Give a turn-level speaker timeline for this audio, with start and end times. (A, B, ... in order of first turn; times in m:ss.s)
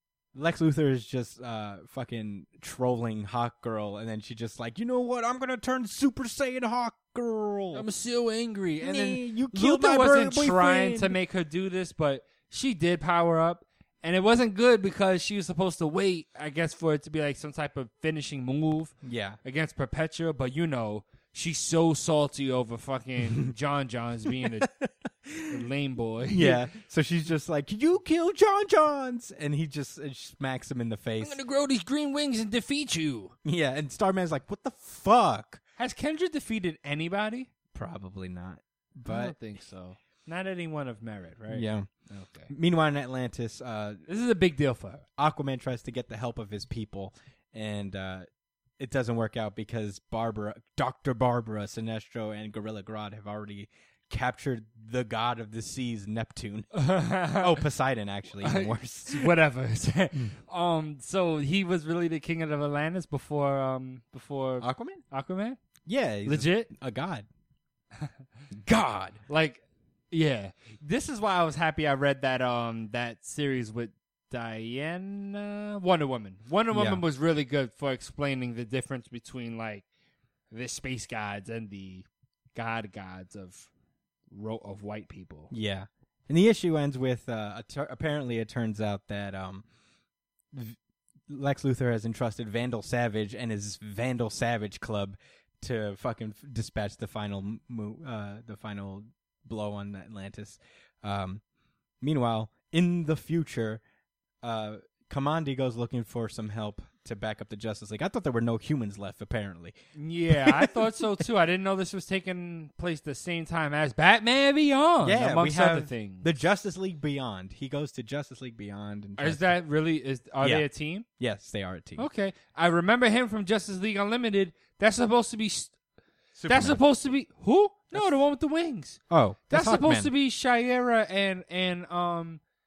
0:00.3-0:07.9 A
0:07.7-0:24.7 B
0:08.8-0:11.2 A
0:19.0-0:19.4 A
0:24.4-0:25.6 A
0:25.5-0:26.6 B
0:26.3-0:31.4 A
0:31.2-0:33.4 B
0:33.4-0:35.6 A
0:35.8-0:37.5 B
0:37.7-0:39.4 A
0:39.1-0:42.5 B
0:41.5-0:41.9 A
0:42.5-0:44.1 A
0:44.1-0:45.0 B
0:45.2-0:48.3 A
0:48.8-0:56.7 A
0:56.7-0:57.6 B
0:57.3-0:59.3 A
0:58.4-1:05.6 B
1:04.6-1:05.0 A
1:05.9-1:07.3 A
1:06.2-1:06.7 B
1:08.6-1:09.2 A
1:09.3-1:19.9 B
1:16.7-1:17.0 A
1:20.5-1:23.7 B
1:24.3-1:25.5 B
1:25.5-1:29.6 A
1:30.5-1:30.8 A
1:31.3-1:41.4 A
1:42.0-1:43.8 A
1:44.4-1:49.8 A
1:50.0-1:56.3 B
1:50.3-1:50.9 A
1:55.0-1:59.6 A
1:59.2-2:01.0 B
2:00.4-2:02.1 A
2:02.0-2:05.8 B
2:06.4-2:06.8 A
2:06.5-2:12.4 B
2:09.1-2:10.1 A